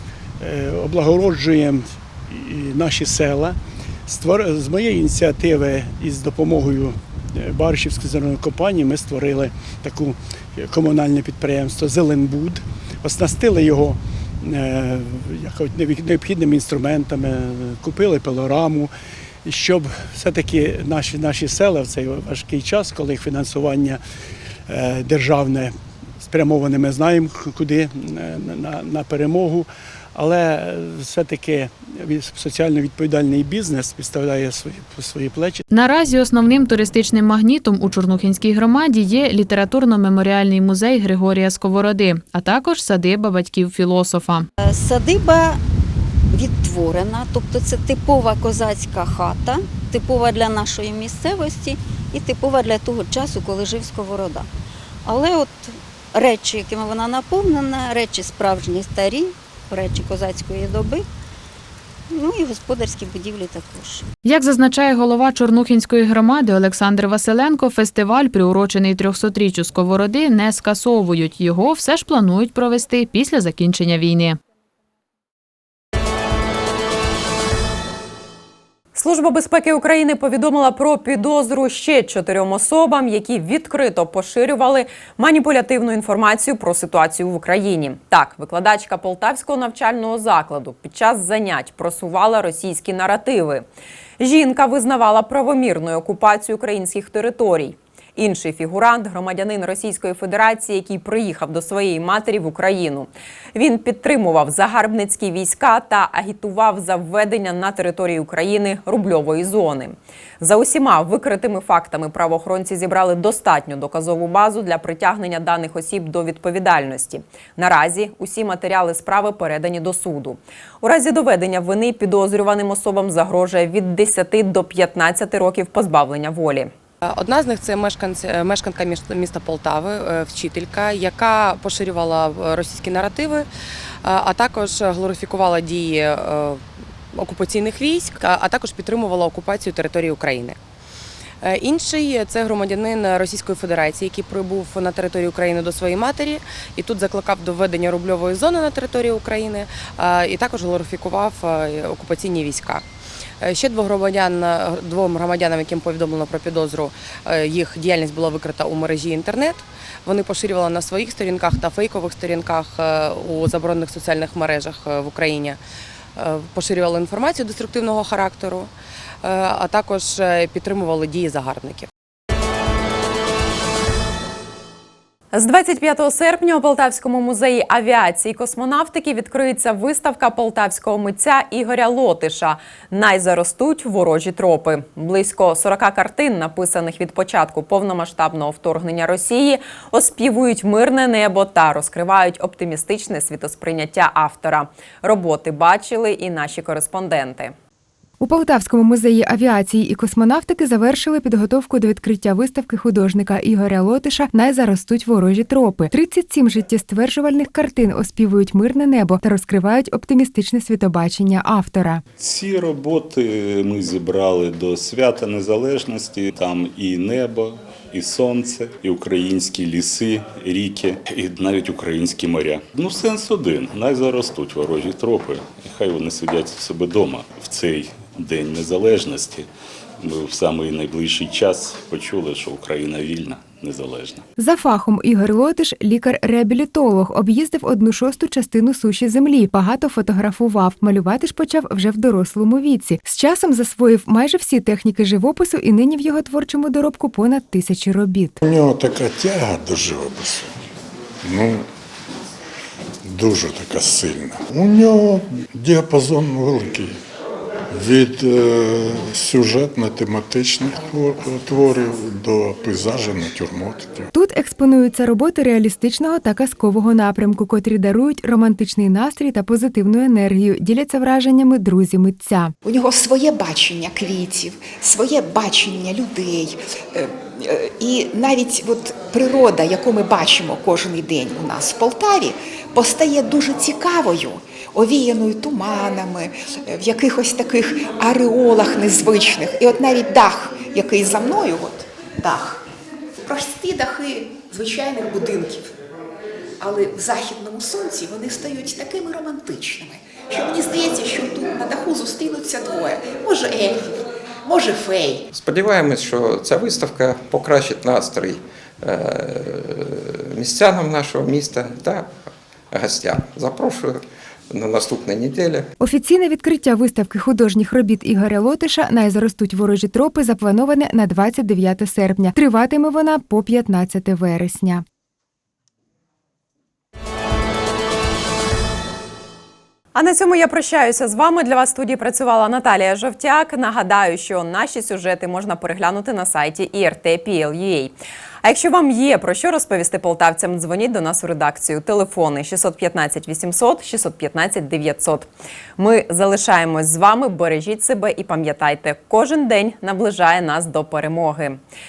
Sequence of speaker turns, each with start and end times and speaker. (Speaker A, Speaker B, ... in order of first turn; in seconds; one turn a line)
Speaker A: 0.4-18.9
Speaker A: 19.4-24.0
Speaker A: 24.7-25.7
Speaker A: 26.2-35.6
Speaker B: 35.7-44.5
Speaker C: 44.6-45.6
Speaker C: 46.3-54.5
Speaker C: 55.0-61.1
Speaker C: 62.1-64.0
Speaker B: 64.2-74.4
Speaker D: 78.9-93.6
Speaker D: 94.2-126.7
Speaker E: 127.0-133.5
Speaker E: 134.0-136.6
Speaker E: 137.1-140.6
Speaker E: 141.4-152.8
Speaker E: 153.4-165.6
Speaker E: 166.2-168.7
Speaker E: 169.2-171.9
Speaker D: 175.3-197.5
Speaker F: 198.2-212.0
Speaker G: 212.2-229.5
Speaker G: 230.0-234.2
Speaker F: 234.4-248.4
Speaker H: 248.4-250.5
Speaker H: 251.2-251.6
Speaker H: 253.1-256.9
Speaker H: 257.7-264.1
Speaker F: 264.1-272.5
Speaker I: 272.6-292.6
Speaker I: 293.2-295.6
Speaker I: 296.6-305.2
Speaker J: 305.3-315.7
Speaker F: 315.8-324.8
Speaker D: 329.9-351.6